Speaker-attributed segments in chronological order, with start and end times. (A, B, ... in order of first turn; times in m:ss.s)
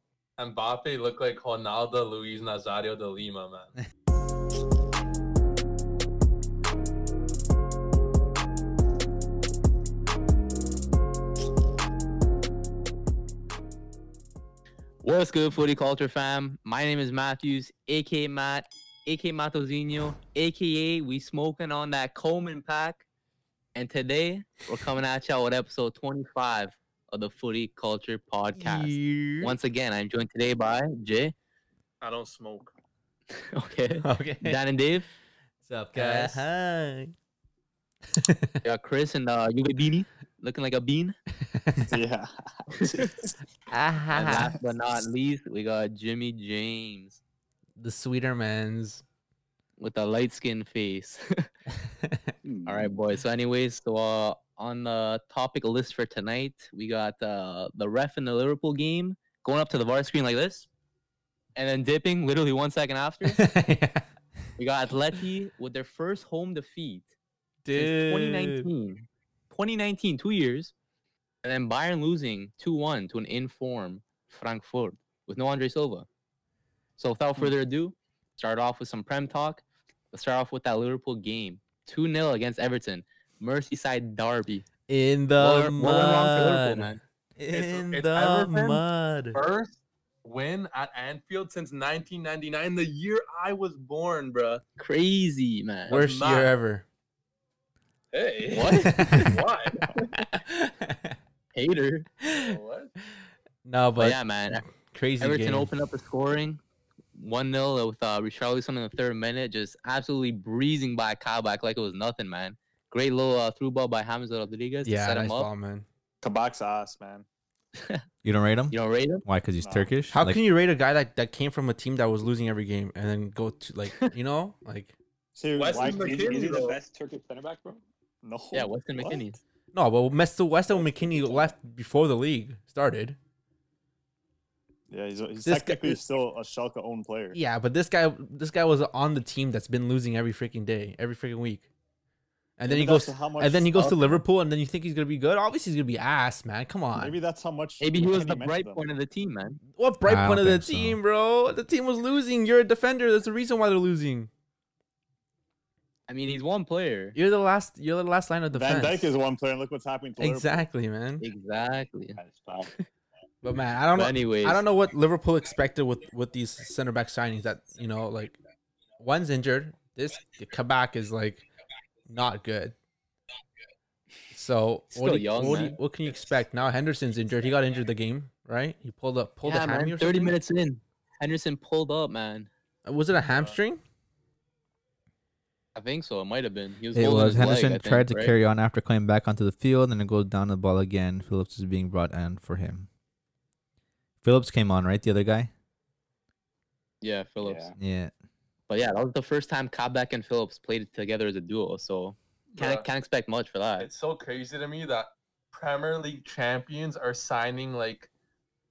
0:00.4-0:03.7 A
0:15.0-0:23.0 B
0:23.7-0:31.3 B
0:28.6-0:29.6 C
0:32.0-0:32.7 A
0:33.3-0:35.0 B
0:34.0-0:34.6 C
0:35.6-0:36.4 D
0:35.9-0:37.1 C
0:38.1-0:38.6 C
0:38.6-0:41.1 B
0:41.6-0:42.0 C
0:41.9-0:43.2 E
0:42.8-0:43.1 B
0:43.7-0:44.6 C
0:44.1-0:47.2 B
0:47.8-0:49.0 C
0:49.8-0:51.5 B
0:52.6-1:00.7 B
1:01.6-1:03.4 B
1:03.2-1:04.0 C
1:04.6-1:07.1 B
1:07.6-1:08.7 C
1:07.7-1:10.7 B
1:11.4-1:16.0 B
1:17.0-1:24.6 B
1:24.9-1:29.4 C
1:25.4-1:27.0 B
1:27.5-1:34.6 A
1:34.8-1:35.9 B
1:35.9-1:36.5 A
1:35.9-1:36.8 C
1:38.1-1:40.1 A
1:38.5-1:39.3 B
1:38.8-1:39.3 C
1:40.4-1:41.1 C
1:41.5-1:42.1 B
1:42.2-1:42.5 C
1:42.3-1:42.9 A
1:43.6-1:45.7 C
1:44.0-1:44.6 B
1:45.2-1:46.6 B
1:47.1-1:55.5 B
1:54.8-1:55.8 C
1:56.2-1:57.2 E
1:57.8-1:58.0 B
1:58.2-2:00.4 D
1:58.7-1:59.2 B
1:59.6-2:00.0 E
2:00.1-2:04.9 C
2:05.3-2:06.8 E
2:05.6-2:06.8 A
2:05.7-2:07.8 F
2:08.2-2:09.2 E
2:08.5-2:09.4 B
2:09.7-2:13.2 C
2:10.7-2:11.5 E
2:14.9-2:17.4 E
2:15.4-2:16.0 C
2:17.3-2:21.7 C
2:22.6-2:27.2 C
2:22.6-2:24.2 E
2:27.0-2:28.8 E
2:27.8-2:29.6 B
2:29.7-2:34.3 C
2:30.0-2:31.0 D
2:36.1-2:37.2 B
2:37.1-2:39.1 C
2:38.5-2:40.6 E
2:40.2-2:41.2 C
2:41.2-2:42.2 B
2:42.2-2:42.8 F
2:43.4-2:48.4 C
2:43.9-2:44.6 B
2:49.0-2:51.5 C
2:52.1-2:52.7 C
2:54.3-3:00.4 C
2:54.9-2:55.8 B
2:59.4-3:02.5 B
3:02.8-3:03.8 C
3:05.7-3:08.3 B
3:06.9-3:12.9 D
3:14.2-3:15.5 D
3:17.0-3:17.7 B
3:17.4-3:17.7 F
3:17.8-3:18.1 D
3:18.7-3:23.9 B
3:22.5-3:22.9 A
3:23.8-3:28.1 A